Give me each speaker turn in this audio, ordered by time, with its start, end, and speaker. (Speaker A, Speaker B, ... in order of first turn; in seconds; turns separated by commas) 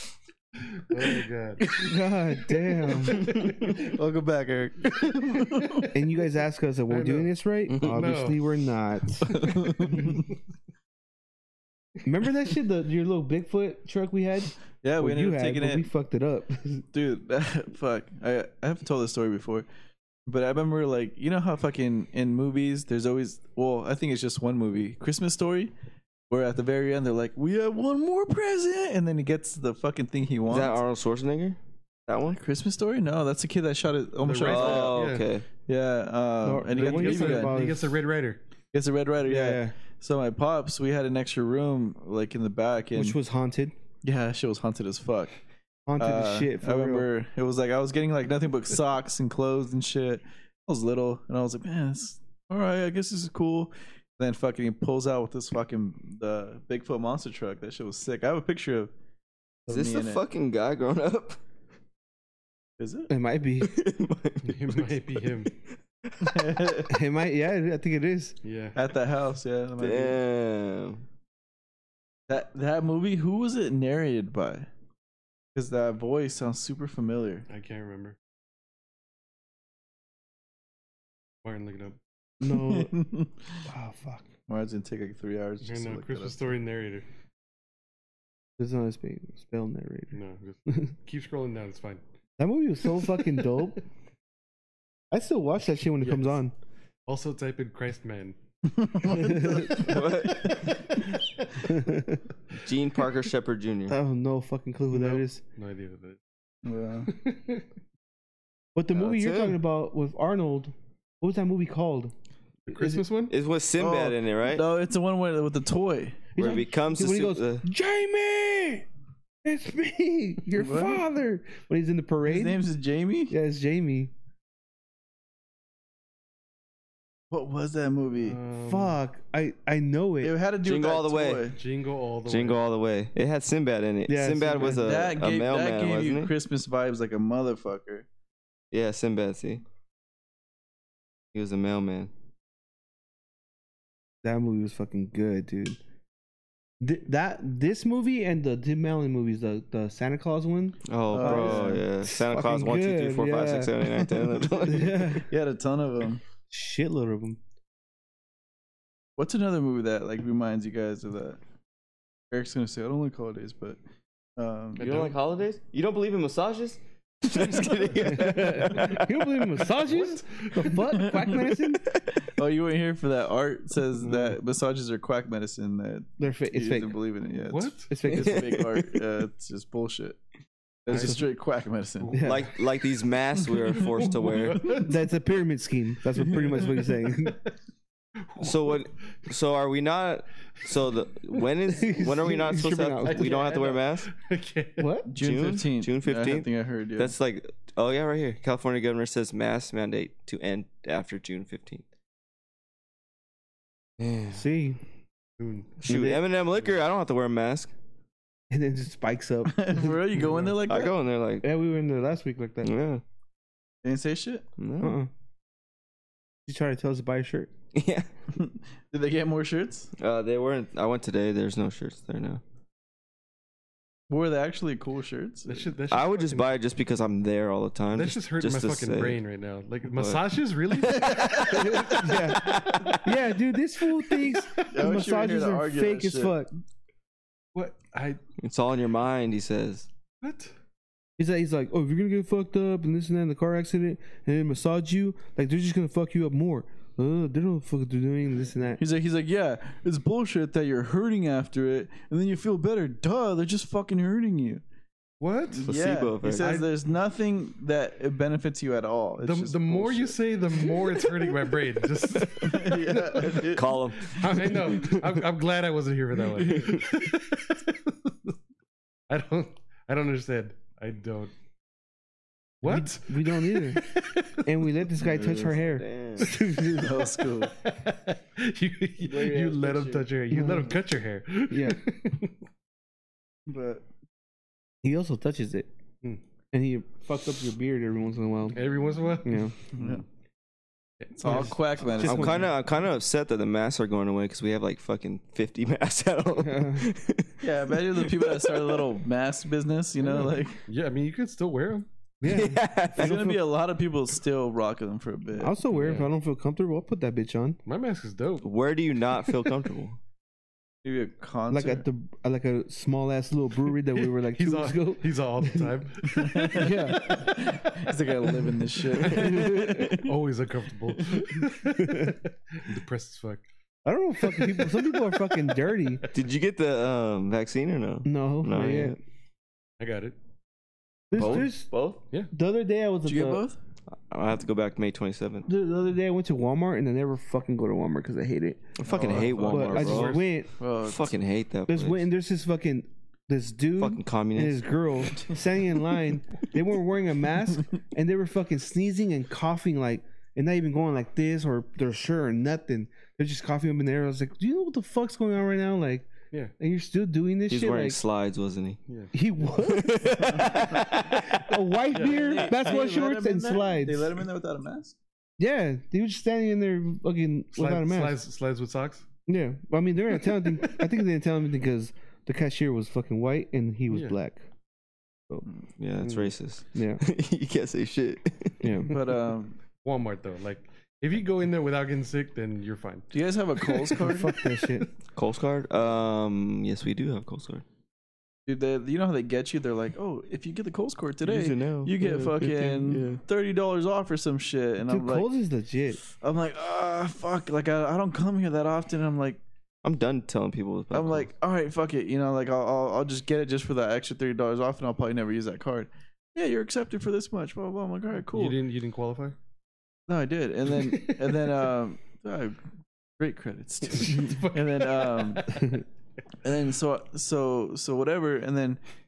Speaker A: 0.6-1.7, Speaker B: 1.6-1.9, Speaker C: 1.8-3.4, Speaker B: 2.5-5.9, Speaker A: 3.2-3.8, Speaker A: 5.5-5.9, Speaker C: 5.9-9.3, Speaker A: 6.9-8.4, Speaker D: 7.7-8.1, Speaker B: 9.2-10.2, Speaker C: 9.9-10.2, Speaker C: 12.0-16.8, Speaker B: 14.8-15.8, Speaker B: 16.9-19.6, Speaker B: 20.2-25.7, Speaker B: 26.3-30.8, Speaker D: 30.5-32.4, Speaker B: 32.3-35.0, Speaker A: 34.2-35.3, Speaker D: 34.4-35.4, Speaker B: 35.7-37.6, Speaker C: 36.4-38.0, Speaker A: 36.7-38.4, Speaker B: 38.7-43.2, Speaker C: 39.2-39.7, Speaker C: 42.9-43.7, Speaker B: 44.0-45.3, Speaker C: 45.9-47.1, Speaker B: 46.0-58.9, Speaker B: 59.6-60.2, Speaker D: 59.7-61.4, Speaker B: 62.8-63.1, Speaker C: 63.1-63.7, Speaker D: 63.6-66.8, Speaker A: 64.4-65.5, Speaker B: 66.2-66.9, Speaker C: 66.9-68.3, Speaker A: 68.4-68.8, Speaker B: 68.7-70.2, Speaker D: 69.8-71.0, Speaker B: 72.3-74.7, Speaker B: 75.5-77.5, Speaker A: 77.5-78.2, Speaker A: 81.4-82.0, Speaker C: 82.4-82.9, Speaker B: 82.4-83.6, Speaker C: 83.7-84.3, Speaker B: 84.5-86.4, Speaker A: 85.6-87.0, Speaker C: 88.6-90.9, Speaker A: 90.1-92.0, Speaker C: 92.4-93.8, Speaker C: 95.1-96.5, Speaker A: 96.0-96.4, Speaker A: 97.1-98.3, Speaker B: 98.7-100.5, Speaker C: 99.0-100.0, Speaker D: 99.7-100.8, Speaker C: 101.6-102.2, Speaker D: 102.5-104.0, Speaker C: 103.9-105.4, Speaker A: 104.9-106.2, Speaker B: 106.6-107.1, Speaker A: 107.1-107.6, Speaker C: 108.7-112.1, Speaker D: 108.9-109.6, Speaker A: 112.7-113.3, Speaker C: 112.7-113.0, Speaker D: 113.3-114.7, Speaker B: 113.8-116.3, Speaker C: 116.3-118.8, Speaker D: 116.4-117.6, Speaker C: 119.4-122.6, Speaker B: 120.5-121.0, Speaker B: 122.2-123.3, Speaker C: 123.3-124.1, Speaker B: 127.3-128.4, Speaker A: 128.2-128.9, Speaker C: 128.7-130.3, Speaker B: 130.2-131.6, Speaker D: 130.6-131.5, Speaker A: 131.5-132.6, Speaker D: 132.3-136.3, Speaker C: 134.1-134.8, Speaker B: 134.6-138.1, Speaker D: 138.7-139.6, Speaker D: 141.3-142.1, Speaker C: 144.2-145.8, Speaker C: 146.8-153.8, Speaker D: 150.9-155.1, Speaker B: 151.1-151.8, Speaker B: 153.9-156.2, Speaker C: 154.6-155.2, Speaker C: 156.5-157.4, Speaker B: 159.2-161.4, Speaker B: 162.3-163.8, Speaker B: 164.3-165.0, Speaker A: 164.8-165.1, Speaker D: 164.8-169.6, Speaker A: 167.5-168.8, Speaker C: 168.0-171.9, Speaker A: 169.7-170.9, Speaker B: 170.8-171.6, Speaker B: 172.2-180.2, Speaker C: 176.2-176.9, Speaker A: 177.5-177.9, Speaker C: 177.9-178.6, Speaker D: 178.1-179.0, Speaker B: 180.8-182.2, Speaker A: 180.9-181.2, Speaker C: 180.9-181.2, Speaker A: 182.0-182.3, Speaker C: 182.1-182.4, Speaker D: 182.2-184.9, Speaker A: 183.9-184.9, Speaker C: 184.7-187.4, Speaker B: 186.3-186.6, Speaker A: 188.3-188.8, Speaker D: 188.4-194.1, Speaker C: 191.7-193.4, Speaker A: 193.0-194.9, Speaker C: 194.8-195.1, Speaker B: 195.1-197.1, Speaker D: 195.2-201.8, Speaker D: 204.0-204.4, Speaker C: 204.3-204.8, Speaker A: 205.4-205.7, Speaker D: 205.8-207.7, Speaker C: 205.8-206.2, Speaker C: 208.5-210.0, Speaker B: 209.4-210.9, Speaker A: 210.2-210.6, Speaker D: 210.7-211.4, Speaker C: 211.4-212.7, Speaker D: 212.6-213.0, Speaker B: 213.8-214.4, Speaker D: 214.6-214.9, Speaker C: 214.8-215.1, Speaker C: 216.4-217.5, Speaker D: 217.7-218.1, Speaker B: 218.3-219.9, Speaker D: 220.0-222.4, Speaker B: 224.1-225.7, Speaker A: 225.5-226.5, Speaker D: 225.9-229.2, Speaker A: 227.9-233.0, Speaker D: 229.9-230.2, Speaker D: 230.8-233.1, Speaker B: 230.9-231.7, Speaker C: 231.5-236.5, Speaker A: 234.3-234.7, Speaker B: 234.7-236.3, Speaker A: 237.5-238.2, Speaker D: 238.4-239.9, Speaker A: 240.2-240.5, Speaker C: 241.2-248.8, Speaker B: 248.8-254.6, Speaker A: 255.2-255.7, Speaker B: 255.5-260.2, Speaker D: 255.6-256.5, Speaker A: 256.3-256.7, Speaker A: 259.2-263.5, Speaker D: 262.1-265.2, Speaker B: 262.4-263.7, Speaker A: 264.0-268.3, Speaker B: 266.3-266.7, Speaker D: 266.4-266.9, Speaker A: 269.1-271.3, Speaker A: 272.6-274.5, Speaker C: 272.6-273.8, Speaker C: 274.4-277.1, Speaker D: 275.0-276.3, Speaker B: 275.1-275.5, Speaker B: 276.8-277.6, Speaker A: 277.5-282.3, Speaker B: 279.0-280.1, Speaker C: 280.3-280.7, Speaker C: 281.5-281.8, Speaker B: 283.5-283.8, Speaker C: 284.8-285.7, Speaker C: 286.5-288.6, Speaker A: 288.5-290.0, Speaker C: 289.2-289.5, Speaker B: 289.7-290.0, Speaker A: 291.0-291.5, Speaker B: 291.2-292.5, Speaker C: 291.2-292.5, Speaker D: 292.0-298.9, Speaker C: 296.4-296.9, Speaker B: 297.4-300.6, Speaker A: 300.7-301.9, Speaker C: 302.2-302.6, Speaker D: 302.2-303.4, Speaker B: 302.9-305.6, Speaker C: 305.4-307.6, Speaker A: 305.7-306.1, Speaker A: 307.6-308.5, Speaker D: 308.4-310.0, Speaker B: 310.8-311.8, Speaker C: 311.5-315.7, Speaker A: 314.3-316.8, Speaker B: 316.1-320.1, Speaker C: 316.5-317.4, Speaker A: 319.0-323.4, Speaker C: 319.1-319.9, Speaker B: 321.0-321.3, Speaker C: 321.8-322.1, Speaker C: 323.8-326.1, Speaker A: 324.2-326.1, Speaker D: 326.1-328.9, Speaker C: 328.0-329.0, Speaker A: 329.8-330.1, Speaker C: 331.1-331.7, Speaker D: 331.1-332.0, Speaker C: 332.3-333.4, Speaker B: 333.0-333.6, Speaker D: 333.9-335.5, Speaker C: 335.4-338.6, Speaker D: 338.8-340.2, Speaker A: 338.9-340.2, Speaker B: 338.9-339.6, Speaker C: 339.4-340.5, Speaker B: 340.6-341.2, Speaker D: 340.8-342.0, Speaker C: 341.7-358.0, Speaker D: 343.8-344.7, Speaker D: 357.5-358.8, Speaker C: 359.1-364.1, Speaker D: 359.5-361.5, Speaker A: 361.9-362.3, Speaker B: 361.9-364.9, Speaker C: 365.4-368.2, Speaker A: 367.5-369.1, Speaker C: 369.3-374.4, Speaker D: 375.8-378.6, Speaker C: 376.0-377.0, Speaker C: 378.6-378.9, Speaker B: 378.9-379.6, Speaker A: 379.8-383.9, Speaker B: 383.1-384.4, Speaker C: 384.0-384.9, Speaker D: 385.1-387.6, Speaker B: 388.4-395.3, Speaker D: 391.2-393.2, Speaker C: 394.9-396.0, Speaker B: 396.2-399.4, Speaker D: 399.8-401.3, Speaker B: 400.9-408.6, Speaker A: 408.3-409.4, Speaker B: 410.1-412.6, Speaker A: 410.8-411.5, Speaker B: 413.2-415.5, Speaker A: 413.9-415.8, Speaker C: 415.5-415.8, Speaker B: 416.4-418.8